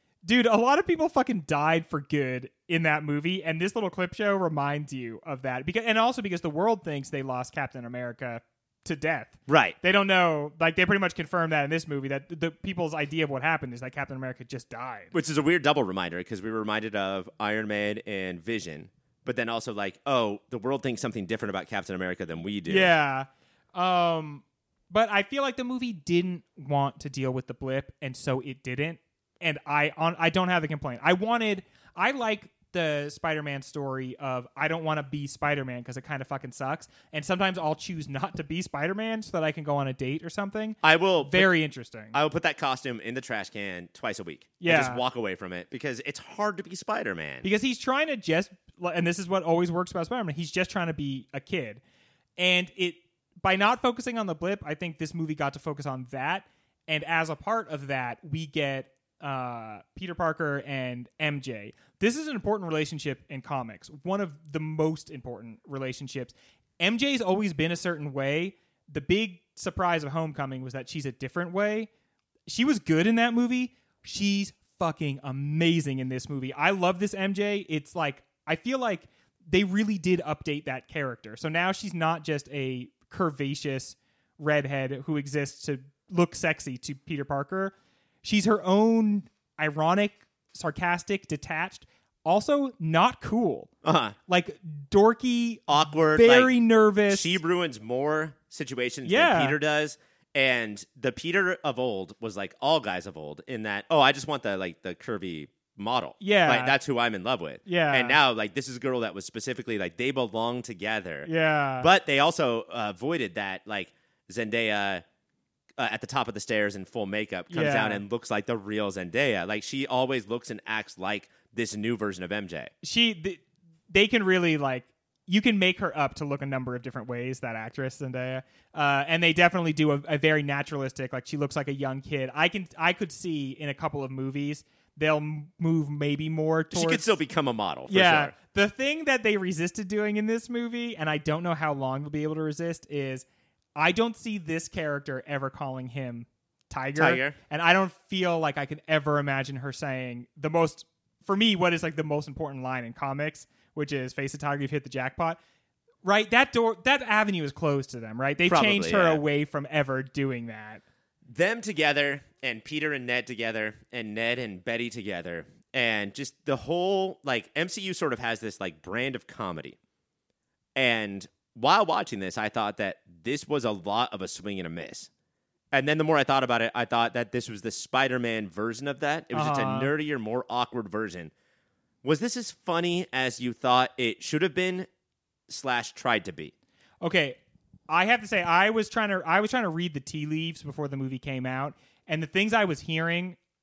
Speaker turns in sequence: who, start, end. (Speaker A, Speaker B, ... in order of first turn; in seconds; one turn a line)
Speaker A: 0.2-15.1
Speaker B: 9.5-9.8
Speaker B: 15.1-22.9
Speaker A: 22.7-42.2
Speaker B: 40.8-41.6
Speaker B: 42.1-47.5
Speaker A: 44.6-45.0
Speaker A: 47.4-51.8
Speaker A: 52.4-71.9
Speaker A: 72.5-87.7
Speaker A: 88.2-93.7
Speaker B: 93.8-94.2
Speaker A: 94.3-97.4
Speaker B: 95.7-96.5
Speaker B: 97.1-111.3
Speaker A: 99.0-99.6
Speaker A: 106.2-106.8
Speaker A: 107.7-108.2
Speaker A: 111.2-111.9
Speaker B: 111.8-115.0
Speaker B: 115.8-122.7
Speaker A: 117.5-118.0
Speaker A: 122.8-137.2
Speaker B: 136.7-138.3
Speaker A: 137.9-143.2
Speaker A: 143.8-155.4
Speaker B: 147.0-147.4
Speaker A: 156.0-160.8
Speaker B: 158.5-159.2
Speaker B: 161.3-169.8
Speaker B: 170.8-175.1
Speaker B: 175.7-181.3
Speaker A: 179.3-179.9
Speaker B: 182.0-184.9
Speaker B: 185.5-186.5
Speaker A: 187.0-193.4